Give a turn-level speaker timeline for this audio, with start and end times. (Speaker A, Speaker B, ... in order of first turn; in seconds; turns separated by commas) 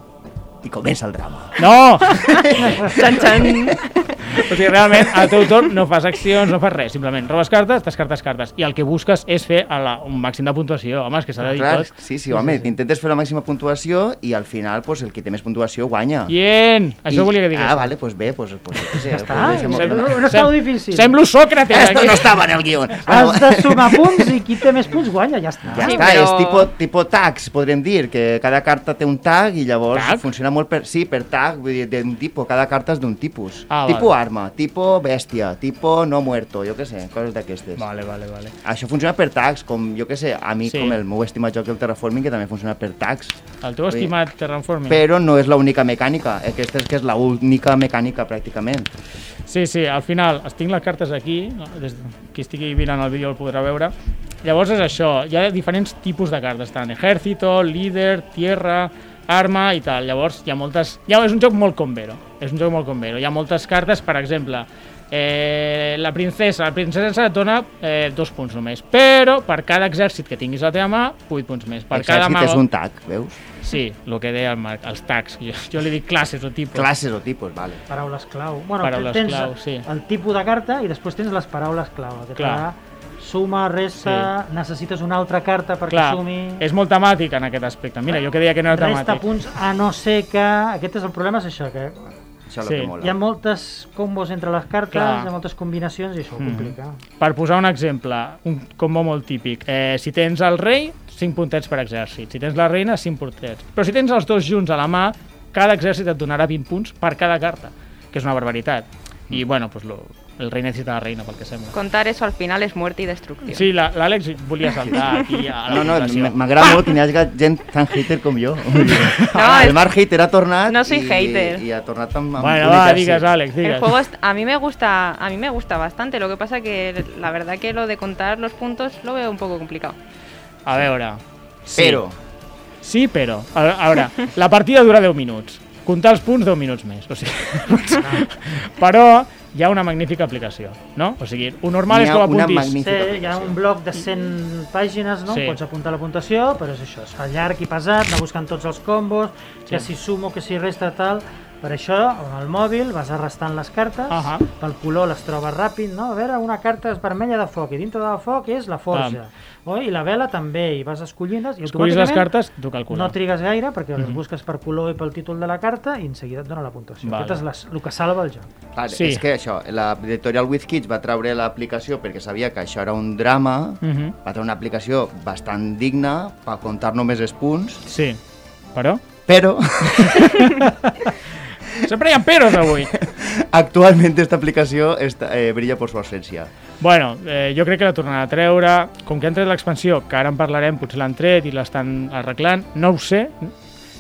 Speaker A: 0.6-3.7, Speaker B: 1.6-2.9, Speaker C: 2.3-4.4, Speaker B: 4.3-11.9, Speaker A: 11.4-16.4, Speaker D: 12.3-12.6, Speaker B: 16.3-17.9, Speaker A: 17.1-20.2, Speaker D: 19.1-21.1, Speaker B: 19.4-22.3, Speaker A: 21.7-24.4, Speaker D: 23.1-26.1, Speaker A: 25.7-37.9, Speaker C: 25.8-26.7, Speaker B: 29.9-30.3, Speaker B: 33.7-34.1, Speaker B: 37.8-38.5, Speaker A: 38.6-44.1, Speaker B: 40.7-41.0, Speaker B: 43.6-45.0, Speaker A: 44.9-48.9, Speaker B: 49.5-72.7, Speaker A: 71.9-73.4, Speaker B: 73.6-76.9, Speaker A: 76.7-77.8, Speaker D: 77.9-86.7, Speaker B: 78.8-79.8, Speaker B: 82.4-82.7, Speaker B: 84.0-84.3, Speaker B: 85.9-89.2, Speaker D: 88.7-92.2, Speaker A: 92.5-93.2, Speaker B: 92.7-92.9, Speaker D: 93.0-97.0, Speaker B: 94.9-95.3, Speaker B: 96.4-111.8, Speaker C: 111.7-113.7, Speaker B: 113.5-116.4, Speaker A: 115.7-123.3, Speaker B: 118.8-119.7, Speaker C: 119.3-119.9, Speaker C: 120.7-121.6, Speaker B: 122.4-123.9, Speaker C: 123.6-130.0, Speaker B: 130.7-132.0, Speaker A: 131.8-132.2, Speaker B: 132.8-142.8, Speaker A: 141.9-143.6, Speaker D: 142.8-162.3, Speaker B: 145.3-145.6, Speaker B: 154.1-154.5, Speaker B: 158.9-159.2, Speaker B: 161.7-163.2, Speaker D: 162.9-168.5, Speaker B: 167.0-167.4, Speaker A: 168.8-177.8, Speaker B: 168.9-169.2, Speaker B: 173.8-174.2, Speaker B: 177.9-178.2, Speaker B: 178.8-179.0, Speaker A: 179.3-180.5, Speaker B: 179.9-180.9, Speaker B: 181.8-182.9, Speaker A: 182.5-186.5, Speaker B: 186.8-193.5